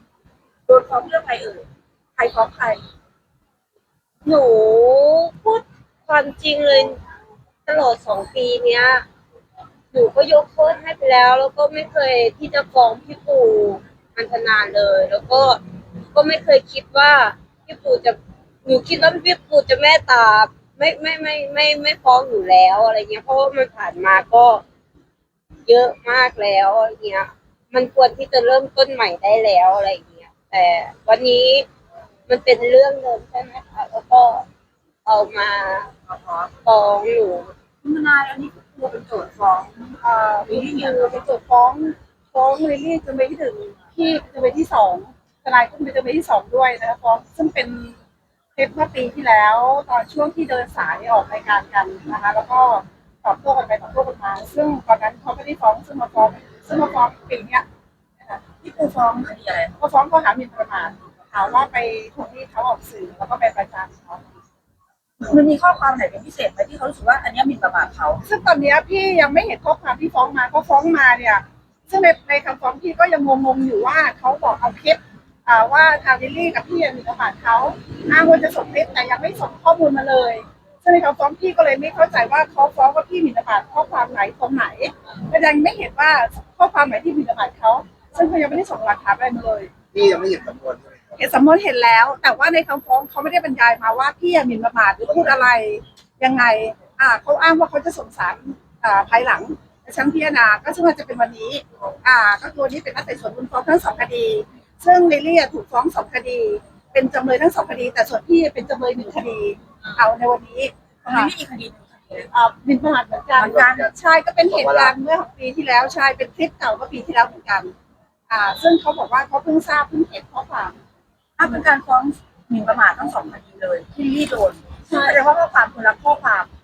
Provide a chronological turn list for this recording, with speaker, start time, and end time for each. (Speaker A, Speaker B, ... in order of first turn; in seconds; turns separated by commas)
Speaker A: 0.7-1.6, Speaker A: 2.2-2.8, Speaker B: 4.2-7.0, Speaker B: 7.7-9.1, Speaker B: 9.9-15.6, Speaker B: 16.1-24.6, Speaker B: 25.6-31.7, Speaker B: 32.3-34.5, Speaker B: 35.0-35.9, Speaker A: 36.1-36.5, Speaker B: 36.6-37.5, Speaker A: 37.8-41.2, Speaker C: 40.0-48.0, Speaker C: 48.5-57.6, Speaker A: 58.6-59.7, Speaker C: 59.8-64.2, Speaker A: 65.2-68.2, Speaker C: 68.2-89.7, Speaker D: 89.9-91.2, Speaker C: 91.2-111.3, Speaker A: 111.0-112.3, Speaker C: 112.3-117.7, Speaker A: 113.3-113.9, Speaker D: 113.5-113.9, Speaker D: 114.5-115.0, Speaker C: 118.3-120.8, Speaker A: 121.4-126.5, Speaker C: 124.9-125.2